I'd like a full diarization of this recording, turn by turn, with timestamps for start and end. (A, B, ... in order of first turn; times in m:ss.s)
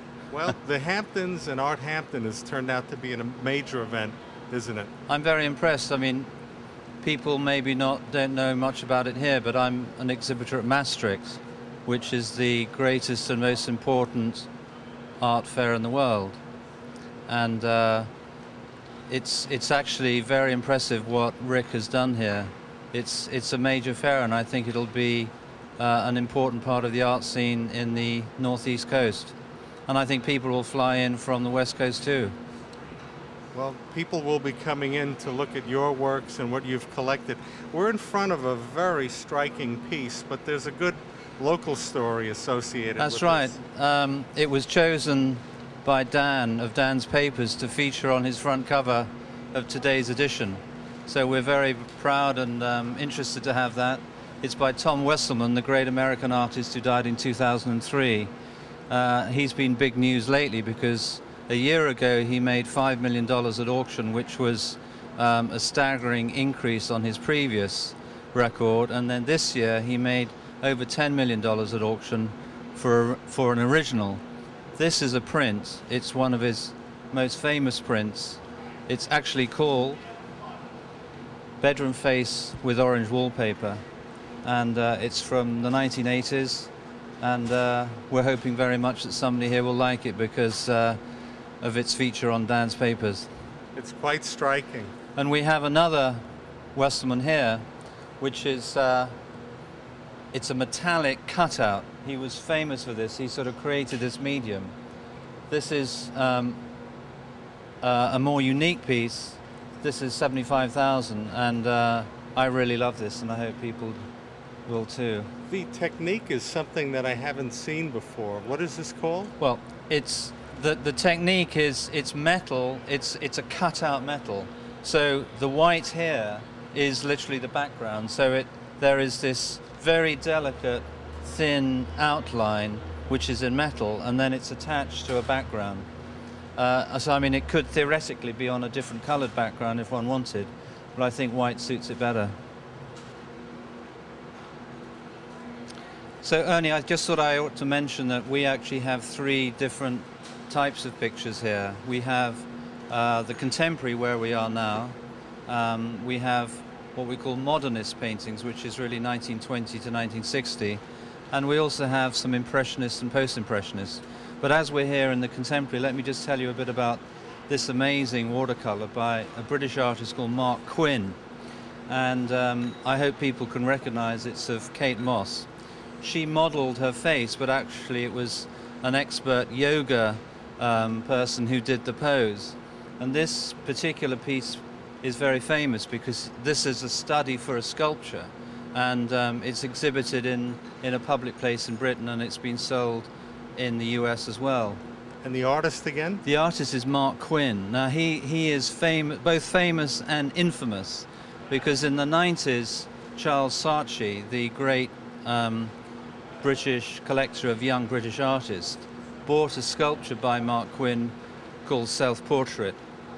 0:00.3-0:04.9 A
0:05.1-0:06.3 B
0:07.0-0:14.5 B
0:15.2-0:16.4 B
0:17.3-0:18.1 B
0:19.1-0:29.4 B
0:29.9-0:32.3 B
0:33.5-0:43.5 A
0:43.0-0:58.3 B
0:58.9-1:14.2 B
1:14.8-1:20.0 B
1:21.6-1:23.8 B
1:24.4-1:31.0 B
1:31.6-1:33.3 B
1:33.7-1:34.9 A
1:35.2-1:36.2 B
1:36.7-1:37.6 B
1:38.2-1:39.1 B
1:40.3-1:44.7 B
1:45.5-1:46.6 B
1:47.8-1:54.0 B
1:54.7-1:55.3 B
1:55.5-1:59.3 A
1:59.4-2:15.9 B
2:16.6-2:22.3 B
2:26.2-2:35.0 B
2:35.5-2:40.8 B
2:41.3-2:51.2 B
2:51.9-2:55.5 B
2:56.0-3:14.8 B
3:15.2-3:16.2 A
3:16.2-3:25.7 B
3:26.4-3:31.1 B
3:31.6-3:32.8 B